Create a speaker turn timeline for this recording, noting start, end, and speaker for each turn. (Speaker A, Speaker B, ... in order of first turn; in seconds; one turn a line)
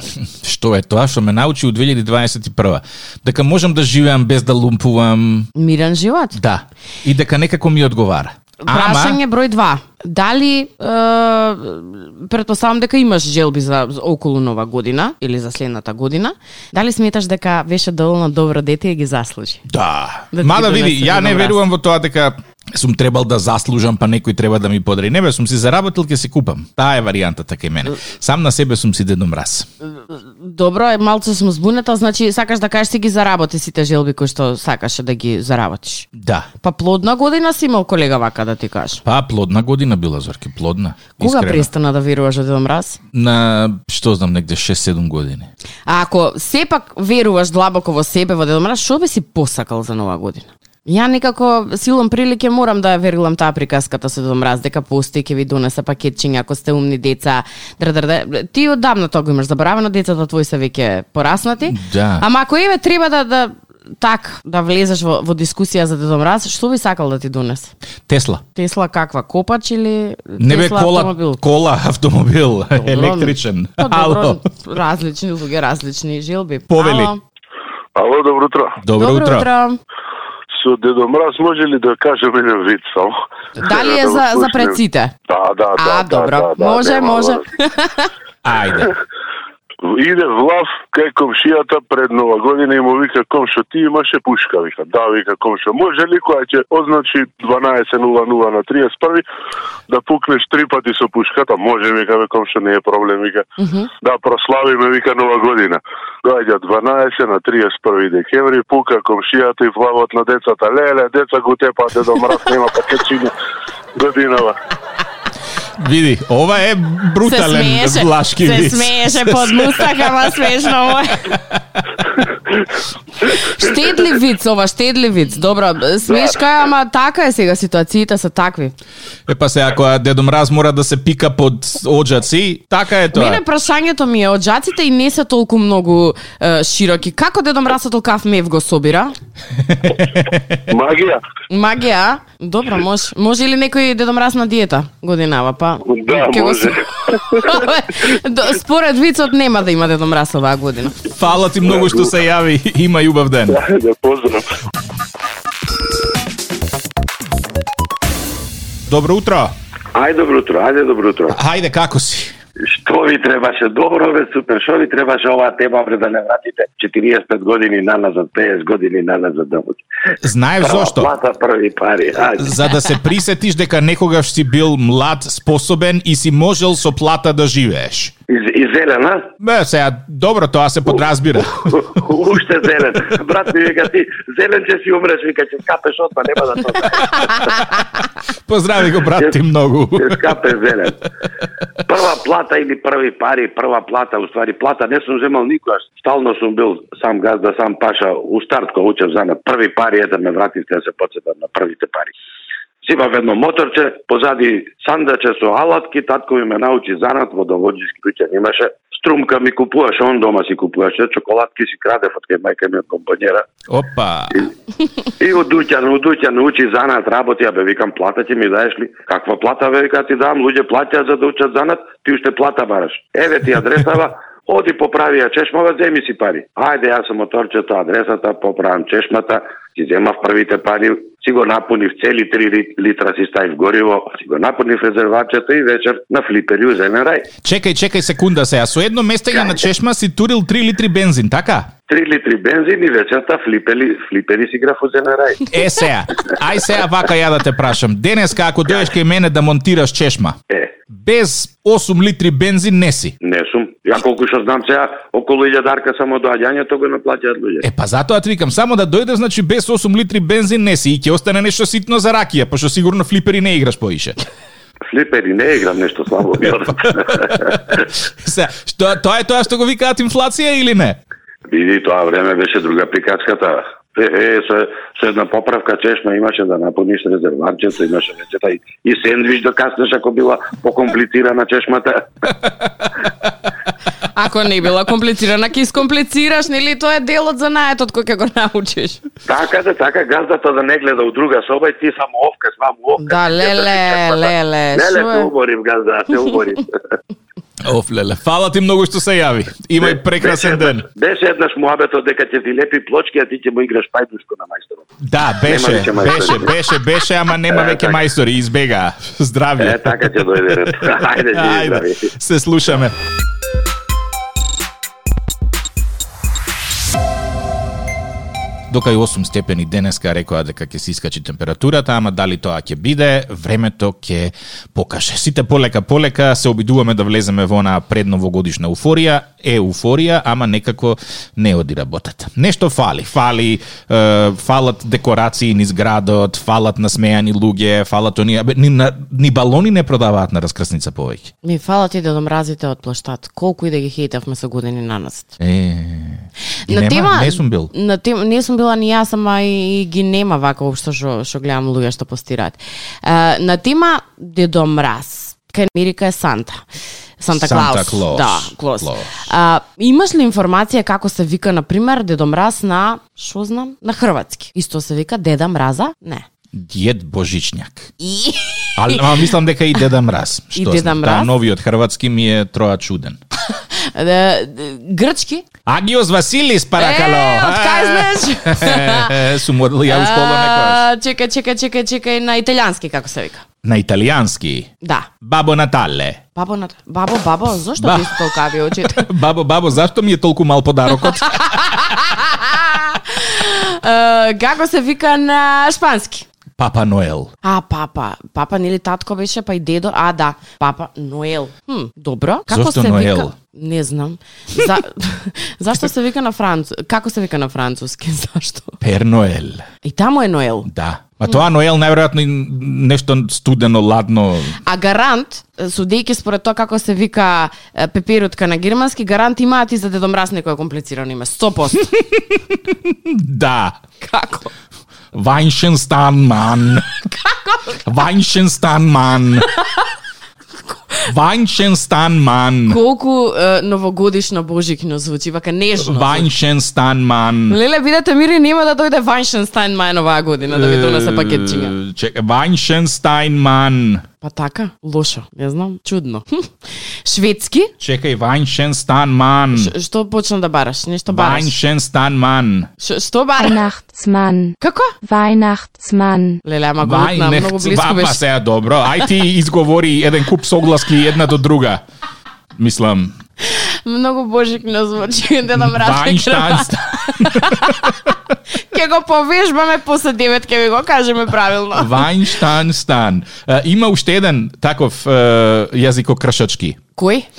Speaker A: 0.4-5.5
Speaker B: 5.5-6.4
Speaker A: 6.3-9.2
Speaker B: 8.6-19.6
Speaker A: 19.7-29.6
Speaker B: 20.3-21.6
Speaker B: 29.9-36.1
Speaker A: 36.1-36.5
Speaker B: 36.6-39.0
Speaker A: 39.0-41.7
Speaker B: 41.2-43.0
Speaker A: 43.1-45.5
Speaker B: 45.9-67.7
Speaker A: 61.7-62.2
Speaker A: 68.1-68.4
Speaker B: 68.5-71.4
Speaker A: 70.4-74.4
Speaker B: 72.8-77.2
Speaker A: 76.7-77.1
Speaker C: 77.9-78.8
Speaker A: 78.8-79.5
Speaker B: 78.9-79.8
Speaker C: 80.5-87.4
Speaker B: 83.6-85.1
Speaker B: 85.8-88.1
Speaker A: 88.4-88.9
Speaker C: 89.8-99.2
Speaker C: 99.9-103.4
Speaker B: 103.6-103.9
Speaker C: 104.0-113.3
Speaker C: 114.0-114.6
Speaker A: 115.8-120.1
Speaker B: 117.2-121.3
Speaker B: 123.3-128.7
Speaker A: 129.3-133.4
Speaker B: 133.1-139.1
Speaker A: 139.7-140.6
Speaker C: 140.7-141.2
Speaker B: 141.5-151.0
Speaker C: 145.8-147.6
Speaker A: 151.1-153.6
Speaker C: 151.7-152.0
Speaker C: 153.5-154.5
Speaker A: 158.9-159.5
Speaker D: 159.9-161.4
Speaker A: 161.3-162.3
Speaker D: 162.6-169.8
Speaker A: 170.2-171.1
Speaker D: 170.6-172.7
Speaker A: 172.3-178.1
Speaker D: 178.3-179.3
Speaker A: 179.4-181.8
Speaker D: 181.6-187.8
Speaker A: 188.5-190.4
Speaker D: 189.9-191.0
Speaker D: 191.8-202.1
Speaker D: 202.8-213.4
Speaker A: 213.7-214.5
Speaker D: 215.2-237.3
Speaker A: 237.4-241.7
Speaker D: 241.9-245.5
Speaker A: 245.5-250.4
Speaker D: 248.7-248.9
Speaker A: 250.9-253.1
Speaker D: 253.2-257.6
Speaker A: 257.6-264.1
Speaker D: 264.9-267.8
Speaker A: 266.6-271.0
Speaker D: 271.5-282.1
Speaker B: 284.1-289.0
Speaker D: 289.2-296.7
Speaker B: 293.0-295.3
Speaker A: 297.6-300.9
Speaker D: 299.8-304.9
Speaker A: 305.0-312.9
Speaker D: 305.4-306.6
Speaker D: 307.5-308.0
Speaker D: 309.6-312.1
Speaker A: 318.7-341.3
Speaker B: 341.4-345.3
Speaker A: 345.4-347.7
Speaker B: 346.7-356.6
Speaker B: 357.2-366.2
Speaker A: 357.3-359.1
Speaker A: 366.5-367.9
Speaker B: 368.0-369.3
Speaker A: 368.8-373.2
Speaker B: 370.5-371.3
Speaker B: 373.5-375.4
Speaker A: 375.6-380.8
Speaker B: 376.8-379.2
Speaker B: 379.9-383.4
Speaker A: 383.6-386.2
Speaker B: 384.8-385.1
Speaker B: 386.3-389.1
Speaker A: 387.8-388.3
Speaker A: 388.8-391.9
Speaker B: 391.3-396.2
Speaker A: 396.6-397.3
Speaker B: 397.4-408.8
Speaker A: 402.5-403.3
Speaker A: 408.8-409.6
Speaker B: 409.8-410.7
Speaker A: 410.6-414.6
Speaker B: 414.6-421.9
Speaker A: 422.1-423.8
Speaker B: 424.0-424.5
Speaker A: 425.1-427.0
Speaker B: 427.1-427.8
Speaker A: 427.9-429.5
Speaker B: 429.6-429.8
Speaker A: 431.1-432.8
Speaker B: 432.7-436.3
Speaker A: 435.8-437.6
Speaker B: 437.5-441.7
Speaker A: 440.4-444.0
Speaker B: 444.2-446.5
Speaker B: 447.1-447.7
Speaker A: 447.8-449.7
Speaker B: 449.5-451.6
Speaker A: 451.1-452.7
Speaker B: 452.8-453.6
Speaker E: 453.4-456.4
Speaker B: 454.6-454.9
Speaker B: 456.4-458.2
Speaker A: 456.8-461.8
Speaker A: 462.6-463.1
Speaker B: 463.4-468.1
Speaker A: 465.6-468.1
Speaker B: 468.7-472.0
Speaker A: 471.7-476.8
Speaker B: 477.0-477.3